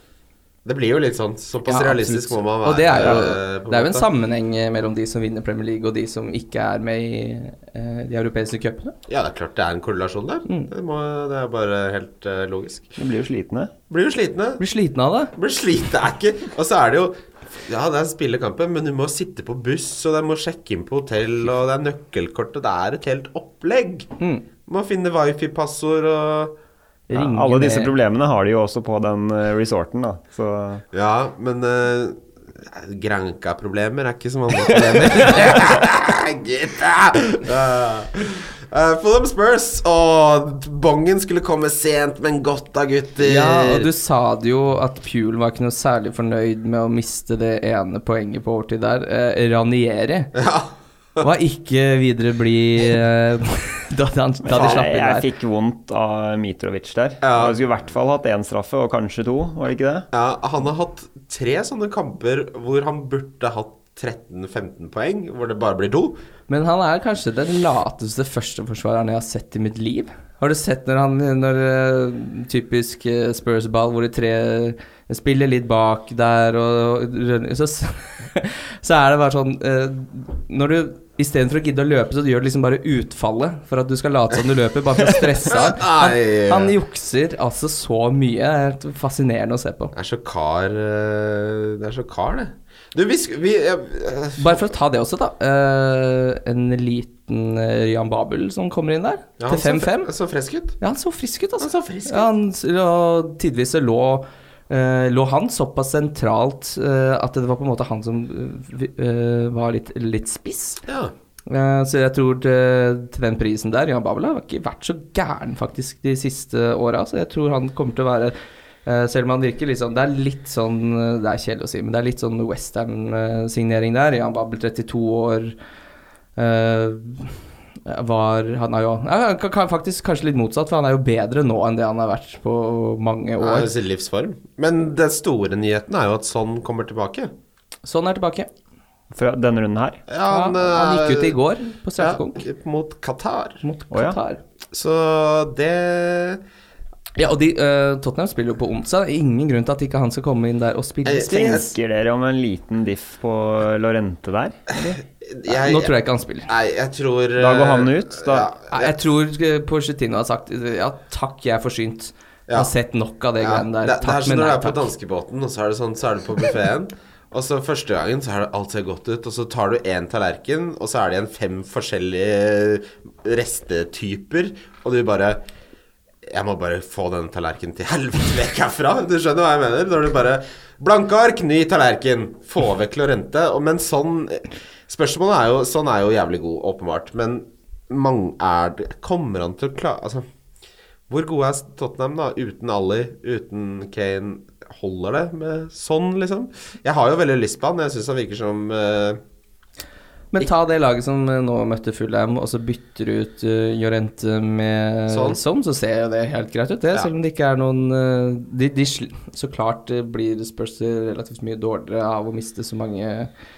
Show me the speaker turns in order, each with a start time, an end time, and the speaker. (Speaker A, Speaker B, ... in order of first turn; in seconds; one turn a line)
Speaker A: 0.6-4.1
Speaker B: 1.6-8.9
Speaker A: 9.1-12.9
Speaker C: 13.0-13.7
Speaker A: 13.9-14.6
Speaker B: 14.6-15.3
Speaker A: 15.3-24.1
Speaker B: 24.2-24.4
Speaker A: 24.7-26.5
Speaker B: 27.1-27.9
Speaker C: 27.1-30.8
Speaker A: 30.9-43.9
Speaker B: 43.2-50.3
Speaker A: 50.3-51.2
Speaker B: 51.2-55.3
Speaker C: 54.5-60.1
Speaker A: 54.5-54.9
Speaker A: 57.2-57.6
Speaker A: 60.1-66.2
Speaker B: 66.5-89.9
Speaker A: 85.5-86.7
Speaker A: 89.9-94.7
Speaker B: 94.4-100.1
Speaker A: 99.4-100.8
Speaker B: 100.8-110.8
Speaker A: 101.6-102.3
Speaker A: 110.8-111.1
Speaker B: 111.5-125.5
Speaker B: 126.3-133.7
Speaker A: 133.4-137.3
Speaker B: 137.8-138.5
Speaker C: 139.1-140.0
Speaker A: 140.1-141.4
Speaker B: 140.3-142.4
Speaker A: 142.0-143.6
Speaker B: 143.6-144.4
Speaker C: 143.9-144.2
Speaker A: 144.7-146.4
Speaker B: 147.2-151.7
Speaker A: 151.0-151.7
Speaker C: 151.3-154.6
Speaker B: 154.8-156.5
Speaker A: 154.8-155.9
Speaker A: 156.5-158.9
Speaker C: 157.4-158.5
Speaker B: 158.7-164.9
Speaker A: 163.4-175.4
Speaker A: 176.2-190.2
Speaker A: 191.1-199.2
Speaker B: 200.3-213.3
Speaker A: 205.1-205.4